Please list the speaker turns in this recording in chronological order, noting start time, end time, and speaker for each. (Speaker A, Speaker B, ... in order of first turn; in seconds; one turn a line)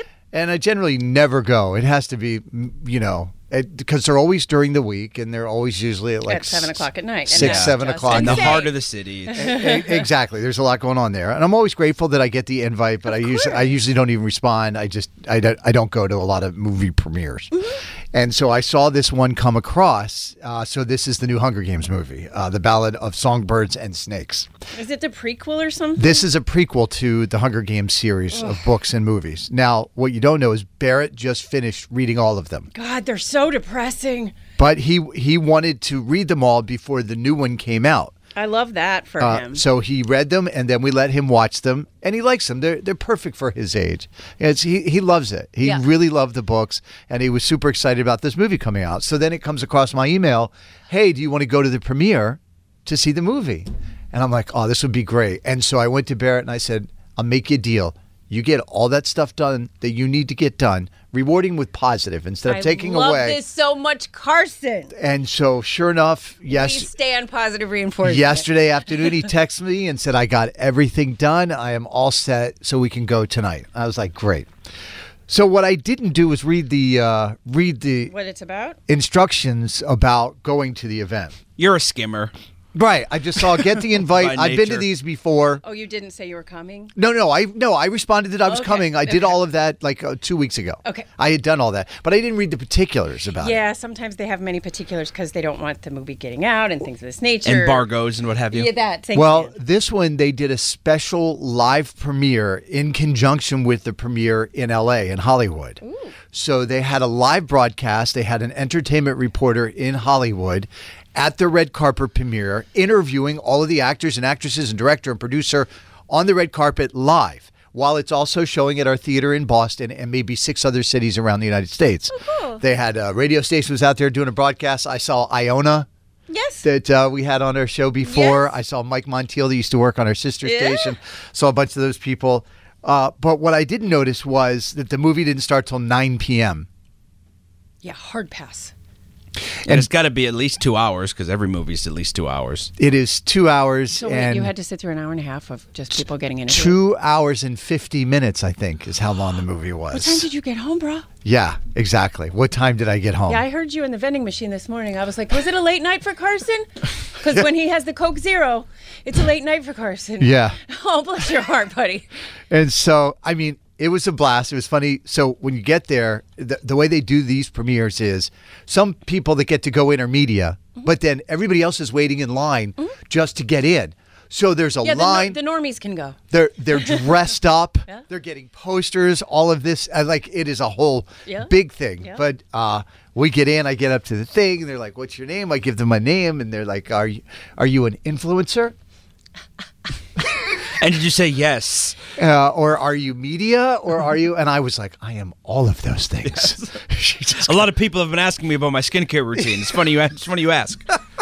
Speaker A: 0.3-8.6
Speaker B: 6.3-8.7
Speaker C: 7.3-9.5
Speaker A: 9.3-24.5
Speaker B: 24.7-26.2
Speaker A: 26.0-32.7
Speaker B: 28.3-28.7
Speaker B: 32.7-34.3
Speaker A: 34.6-38.1
Speaker B: 38.4-39.6
Speaker A: 39.2-63.4
Speaker B: 62.5-64.9
Speaker A: 64.9-66.9
Speaker B: 66.5-68.5
Speaker A: 68.0-74.5
Speaker A: 75.3-78.1
Speaker B: 78.1-78.8
Speaker A: 78.9-81.3
Speaker C: 81.6-82.3
Speaker A: 82.7-85.6
Speaker C: 84.1-84.8
Speaker B: 85.6-86.9
Speaker A: 87.0-93.6
Speaker B: 88.5-89.3
Speaker B: 93.4-97.9
Speaker C: 97.4-98.7
Speaker B: 98.5-99.5
Speaker A: 99.1-105.8
Speaker B: 105.8-106.1
Speaker A: 106.3-125.9
Speaker B: 122.1-122.6
Speaker B: 126.3-126.6
Speaker A: 126.6-136.7
Speaker B: 128.0-128.5
Speaker B: 130.4-130.9
Speaker B: 137.8-138.7
Speaker C: 139.6-142.7
Speaker A: 142.8-144.5
Speaker B: 143.9-146.8
Speaker A: 146.5-150.3
Speaker B: 149.9-151.1
Speaker A: 151.2-153.4
Speaker B: 153.3-162.1
Speaker A: 160.2-160.6
Speaker A: 162.5-175.4
Speaker B: 174.8-176.2
Speaker A: 176.3-188.7
Speaker B: 181.3-182.2
Speaker C: 190.8-192.0
Speaker A: 192.2-197.6
Speaker C: 196.3-196.5
Speaker C: 197.4-200.8